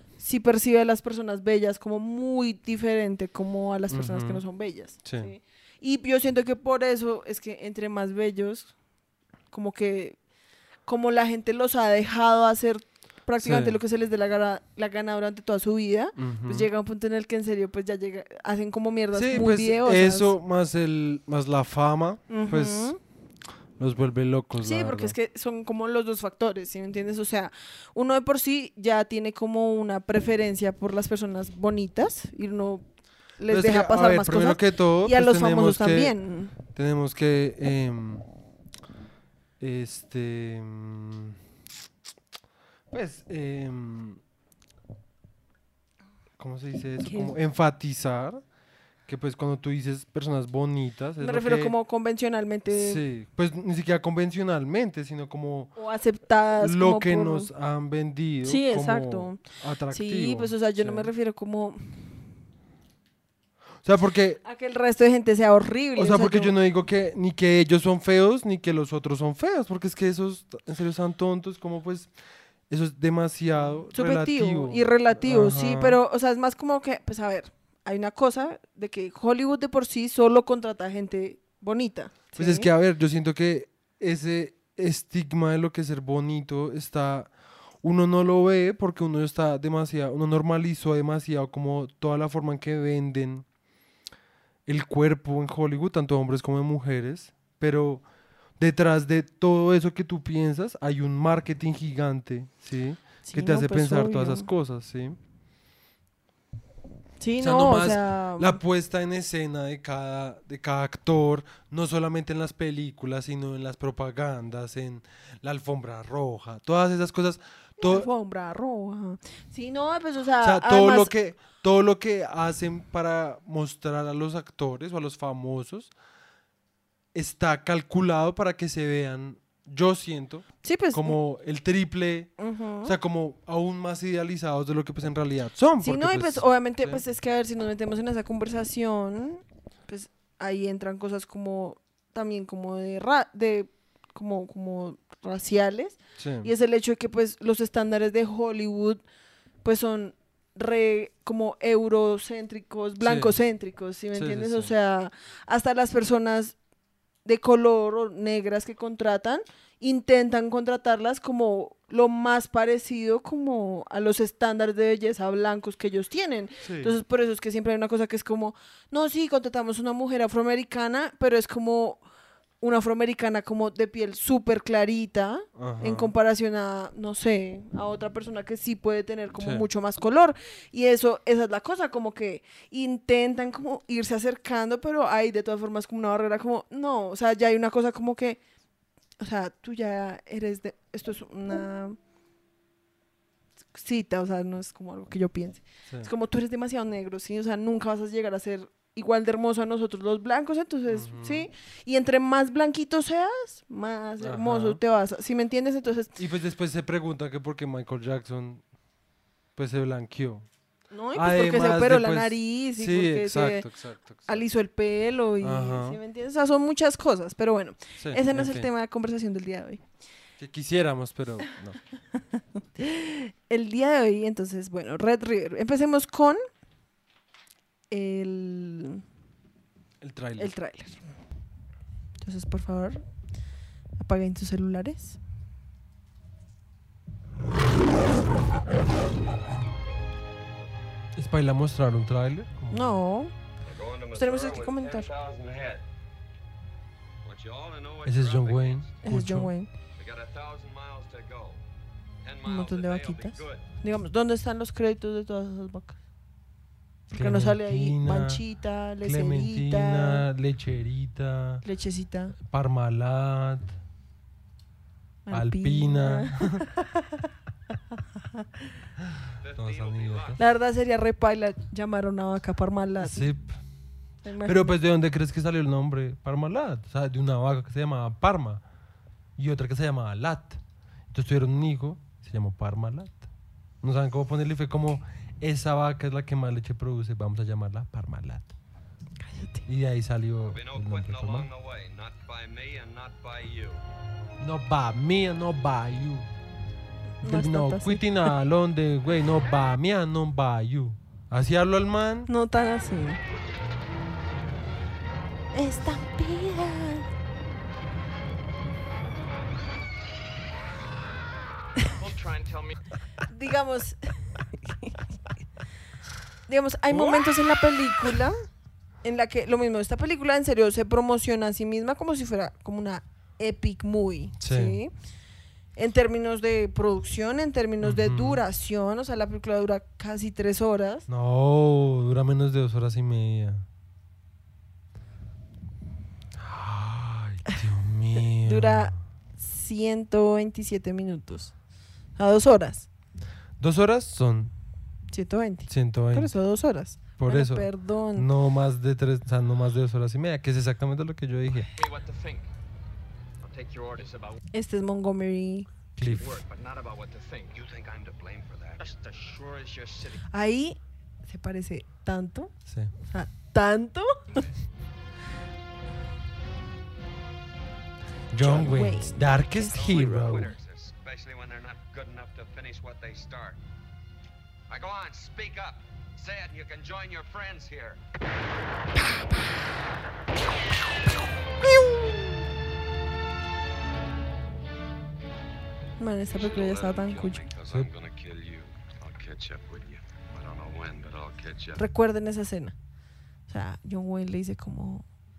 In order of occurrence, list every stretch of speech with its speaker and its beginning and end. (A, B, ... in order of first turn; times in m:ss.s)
0:00.2-0:08.8 A
0:03.9-0:04.4 B
0:05.0-0:05.3 B
0:09.5-0:10.2 A
0:10.8-0:20.3 A
0:13.4-0:13.8 B
0:16.2-0:16.7 B
0:19.1-0:22.9 B
0:22.3-0:23.0 A
0:23.8-0:25.1 B
0:24.6-0:36.5 A
0:33.5-0:38.3 B
0:39.6-0:41.4 B
0:42.9-0:44.2 B
0:46.4-0:48.4 B
0:47.0-0:47.4 A
0:49.1-0:51.7 B
0:51.2-0:53.0 A
0:52.7-0:55.8 B
0:55.8-0:57.5 A
0:56.6-1:01.1 B
0:58.4-1:02.1 A
1:03.8-1:04.4 B
1:04.4-1:06.5 A
1:06.0-1:12.1 B
1:12.7-1:16.0 B
1:13.9-1:22.7 A
1:22.4-1:33.5 B
1:34.7-1:45.2 B
1:43.2-1:44.5 A
1:47.2-1:48.6 A
1:47.4-1:58.1 B
1:57.8-2:01.1 A
2:00.4-2:05.9 B
2:07.1-2:17.0 B
2:10.6-2:11.2 A
2:12.4-2:13.0 A
2:15.8-2:29.0 A
2:26.2-2:26.5 B
2:29.6-2:36.6 A
2:33.0-2:33.4 B
2:34.1-2:34.7 B
2:37.2-2:52.0 A
2:46.6-2:46.9 B
2:52.6-3:08.4 A
2:55.6-2:56.1 B
2:59.4-2:59.6 B
3:09.2-3:12.0 A
3:13.7-3:26.2 A
3:20.9-3:21.5 B
3:24.2-3:24.8 B
3:26.2-3:28.7 B
3:29.5-3:30.5 B
3:30.9-3:33.7 A
3:31.1-3:34.4 B
3:34.2-3:39.8 A
3:35.4-3:36.0 B
3:38.0-3:38.7 B
3:40.4-3:41.8 B
3:42.3-3:46.4 A
3:47.9-3:49.0 A
3:50.0-3:50.5 B
3:50.4-3:51.0 A
3:52.2-3:53.0 A
3:54.0-3:55.2 A
4:01.2-4:03.0 B
4:02.7-4:03.3 A
4:03.6-4:05.8 C
4:04.1-4:05.1 A
4:07.2-4:08.9 C
4:08.0-4:09.5 B
4:09.0-4:09.7 A
4:10.0-4:11.6 C
4:12.2-4:13.6 C
4:12.4-4:16.0 A
4:17.1-4:20.2 A
4:17.1-4:18.4 B
4:19.0-4:21.6 B
4:21.6-4:22.4 A
4:22.4-4:23.8 B
4:25.2-4:27.2 A
4:25.3-4:26.6 B
4:27.9-4:28.4 A
4:29.0-4:30.4 B
4:29.4-4:30.4 C
4:30.4-4:33.2 A
4:33.0-4:33.6 B
4:34.2-4:34.7 A
4:34.4-4:38.6 B
4:39.4-4:43.3 B
4:43.8-4:48.5 B
4:49.2-4:49.6 A
4:49.7-4:51.5 B
4:50.5-4:53.8 C
4:54.4-4:56.3 B
4:57.2-4:58.4 A
4:57.2-5:02.3 B
5:02.3-5:03.2 A
5:05.5-5:07.1 A
5:12.0-5:12.8 C
5:13.2-5:15.0 A
5:16.5-5:18.4 A
5:16.9-5:17.3 B
5:19.0-5:24.9 A
5:24.4-5:24.8 B
5:25.8-5:31.1 A
5:27.8-5:28.4 B
5:31.1-5:33.6 B
5:36.4-5:39.0 B
5:38.4-5:41.6 A
5:42.1-5:42.9 A
5:43.6-5:44.5 B
5:45.1-5:48.3 A
5:45.7-5:46.4 B
5:47.2-5:51.7 B
5:51.8-5:52.5 C
5:53.4-5:54.4 C
5:54.5-5:55.7 A
5:56.0-5:56.4 B
5:56.1-6:00.2 C
6:00.3-6:04.5 A
6:02.7-6:02.9 B
6:08.3-6:10.5 B
6:08.4-6:10.1 A
6:09.5-6:13.6 C
6:14.7-6:18.0 C
6:19.0-6:19.8 A
6:21.6-6:22.3 A
6:26.0-6:27.4 A
6:26.3-6:31.8 C
6:31.8-6:32.8 A
6:33.5-6:35.1 A